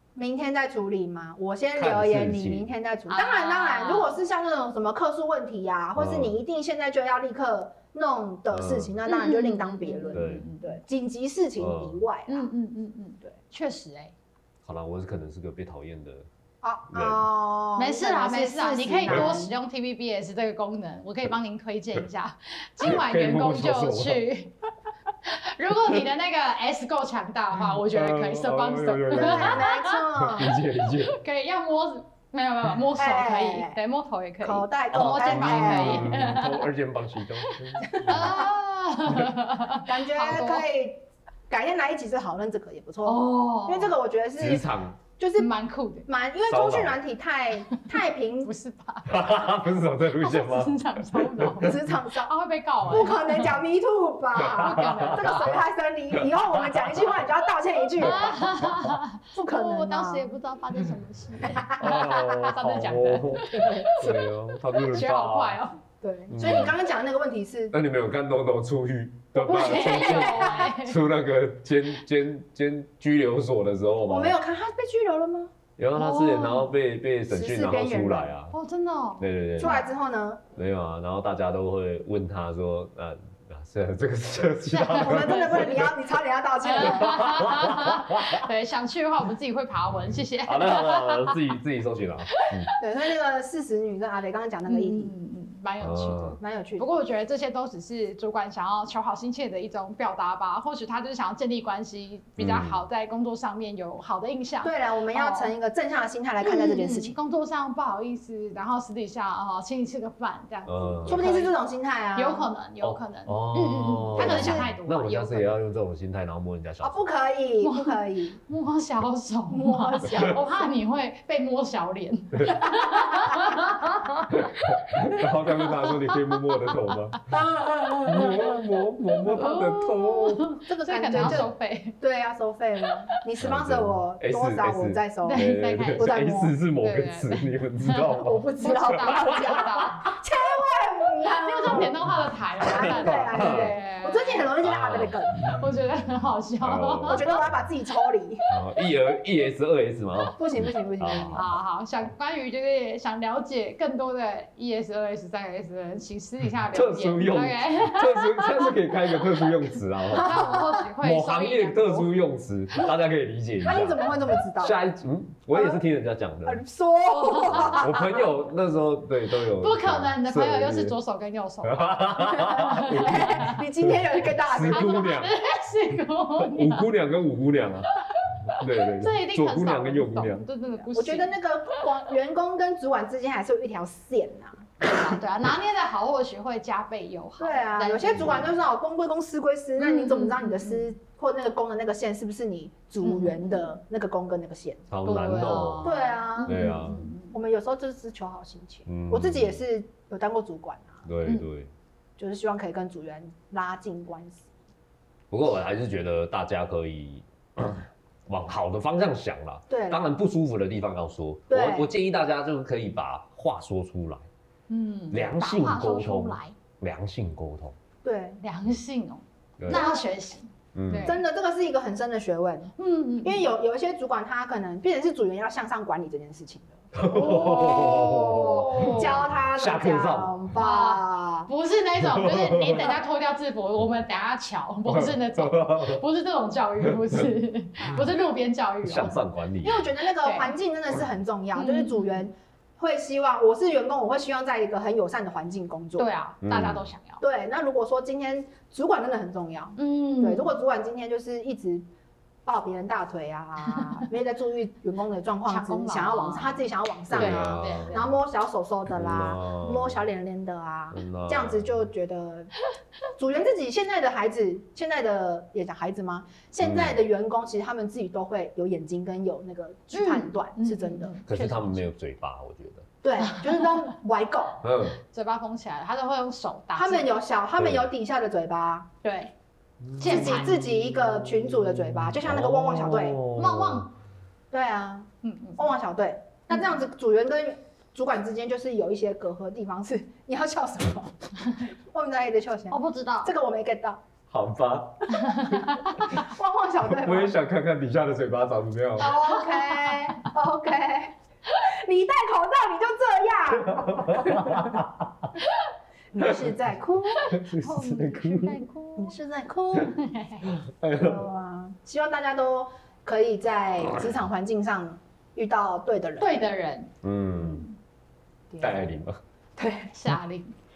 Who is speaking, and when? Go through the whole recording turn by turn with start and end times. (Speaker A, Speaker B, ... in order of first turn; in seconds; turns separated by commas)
Speaker A: 0.1-12.5, Speaker B: 1.7-2.7, Speaker C: 3.1-4.2, Speaker B: 6.0-6.4, Speaker B: 8.5-8.9, Speaker C: 9.1-10.8, Speaker B: 10.1-10.4, Speaker B: 11.6-12.0, Speaker C: 12.3-14.1, Speaker B: 14.6-16.3, Speaker A: 16.6-19.5, Speaker B: 16.9-17.2, Speaker C: 17.8-24.5, Speaker B: 22.9-24.2, Speaker C: 25.2-30.0, Speaker B: 27.6-31.2, Speaker A: 29.1-30.6, Speaker C: 31.1-36.7, Speaker A: 33.0-33.8, Speaker A: 34.4-36.2, Speaker B: 34.9-38.4, Speaker C: 37.4-40.7, Speaker A: 37.8-38.5, Speaker A: 39.8-44.7, Speaker C: 43.0-44.0, Speaker B: 44.4-45.0, Speaker A: 45.2-45.5, Speaker C: 45.4-46.1, Speaker A: 46.1-48.5, Speaker B: 46.5-47.0, Speaker C: 48.4-49.4, Speaker B: 49.1-51.8, Speaker C: 50.2-53.5, Speaker A: 51.6-52.3, Speaker A: 52.9-58.4, Speaker B: 54.4-55.6, Speaker C: 54.5-55.5, Speaker B: 56.1-57.2, Speaker C: 58.0-64.2, Speaker B: 58.0-59.0, Speaker A: 59.3-60.3, Speaker A: 61.5-61.8, Speaker B: 61.8-65.6, Speaker A: 63.5-64.1, Speaker C: 64.8-65.8, Speaker A: 66.0-67.7, Speaker B: 66.3-66.8, Speaker B: 67.7-74.3, Speaker A: 69.4-70.7, Speaker C: 69.4-71.0, Speaker A: 74.1-75.5, Speaker B: 75.8-78.5, Speaker C: 75.9-76.7, Speaker A: 77.3-78.3, Speaker C: 78.5-79.8, Speaker B: 79.2-79.8, Speaker A: 79.6-80.4, Speaker B: 80.5-86.0, Speaker C: 84.7-85.8, Speaker A: 85.0-87.5, Speaker C: 86.6-91.4, Speaker B: 86.8-88.5, Speaker B: 90.4-92.7, Speaker C: 92.3-92.7, Speaker A: 92.8-95.1, Speaker C: 94.7-105.5, Speaker B: 95.8-96.4, Speaker A: 96.4-96.8, Speaker B: 102.4-102.8, Speaker A: 104.6-107.2, Speaker C: 106.4-111.6, Speaker B: 110.7-111.2, Speaker A: 111.0-112.5, Speaker C: 112.1-115.5, Speaker B: 112.8-117.0, Speaker A: 114.1-114.7, Speaker A: 116.8-118.4, Speaker C: 117.6-117.9, Speaker C: 118.5-124.6, Speaker A: 119.5-120.4, Speaker B: 122.3-123.2, Speaker B: 124.3-127.4, Speaker C: 125.2-126.5, Speaker A: 127.3-128.6, Speaker C: 127.9-128.3, Speaker B: 128.0-130.6, Speaker C: 129.2-131.9, Speaker A: 129.3-129.6, Speaker A: 130.6-135.4, Speaker B: 131.1-131.5, Speaker B: 133.4-140.1, Speaker C: 135.2-136.1, Speaker A: 136.0-136.5, Speaker C: 136.8-140.1, Speaker A: 138.2-141.9, Speaker C: 141.2-144.5, Speaker A: 142.6-145.4, Speaker B: 142.6-143.8, Speaker B: 144.6-145.5, Speaker C: 145.4-147.4, Speaker B: 146.6-147.5, Speaker A: 147.1-148.4, Speaker B: 148.5-151.5, Speaker A: 150.3-151.4, Speaker C: 151.3-159.5, Speaker B: 156.7-160.4, Speaker C: 160.1-162.1, Speaker A: 160.2-160.6, Speaker B: 161.0-164.0, Speaker A: 163.6-164.8, Speaker B: 164.6-166.6, Speaker A: 165.5-165.8, Speaker A: 166.4-168.3, Speaker C: 167.1-167.9, Speaker B: 167.5-170.9, Speaker C: 169.6-173.6, Speaker B: 171.6-175.3, Speaker A: 172.3-175.1, Speaker C: 174.7-176.8, Speaker B: 176.4-177.9, Speaker C: 178.1-181.8, Speaker B: 178.5-180.4, Speaker A: 180.9-184.7, Speaker C: 184.8-188.5, Speaker A: 187.4-194.9, Speaker B: 188.1-188.5, Speaker C: 189.8-190.9, Speaker C: 193.0-193.7, Speaker B: 194.9-195.9, Speaker C: 195.0-197.4, Speaker A: 195.8-196.7, Speaker B: 196.4-197.0, Speaker A: 197.3-201.1, Speaker B: 198.9-199.6, Speaker B: 201.1-201.7, Speaker A: 202.2-204.5, Speaker B: 205.3-214.2, Speaker A: 209.7-210.1, Speaker A: 211.5-211.9, Speaker C: 214.7-216.5, Speaker B: 215.1-217.8, Speaker A: 218.0-218.4, Speaker C: 218.4-221.2, Speaker B: 219.6-219.9, Speaker A: 219.7-220.0, Speaker B: 220.7-221.1, Speaker A: 220.9-231.5, Speaker C: 222.8-223.4, Speaker B: 226.9-230.6, Speaker C: 227.5-229.2, Speaker C: 230.5-239.2, Speaker B: 232.0-232.9, Speaker B: 234.8-236.0, Speaker B: 236.9-237.2, Speaker B: 238.8-239.9, Speaker A: 239.6-246.1, Speaker C: 240.2-240.5, Speaker C: 241.5-242.3, Speaker C: 246.0-247.2, Speaker B: 246.4-246.9, Speaker A: 247.2-251.8, Speaker C: 249.8-250.6, Speaker A: 252.4-262.5, Speaker C: 253.7-254.0, Speaker C: 255.4-258.2, Speaker B: 257.1-258.0, Speaker B: 258.9-260.0, Speaker B: 260.9-261.7, Speaker A: 263.2-271.1, Speaker B: 266.6-267.0, Speaker C: 269.9-271.8, Speaker B: 271.3-272.9, Speaker A: 273.0-274.6, Speaker C: 273.2-273.9, Speaker B: 274.6-275.0, Speaker C: 274.8-277.1, Speaker A: 276.7-278.9, Speaker B: 277.6-277.9, Speaker C: 279.0-279.3, Speaker B: 279.8-283.9, Speaker C: 280.0-280.6, Speaker A: 280.0-283.2, Speaker C: 283.3-283.9, Speaker A: 284.5-294.0, Speaker C: 285.2-285.7, Speaker C: 292.7-293.3, Speaker B: 294.3-295.6, Speaker C: 295.1-296.1, Speaker A: 296.0-297.4, Speaker B: 296.9-299.1, Speaker A: 299.0-304.8, Speaker C: 299.2-300.3, Speaker B: 303.7-305.3, Speaker C: 305.4-305.7, Speaker A: 306.1-307.3, Speaker C: 307.2-309.1, Speaker B: 307.2-308.6, Speaker A: 308.9-309.9, Speaker C: 309.7-310.6, Speaker B: 310.6-311.3, Speaker A: 310.9-316.4, Speaker C: 316.2-317.7, Speaker B: 317.0-317.6, Speaker A: 318.5-319.0, Speaker B: 318.6-319.2, Speaker A: 319.6-319.9, Speaker C: 319.9-320.5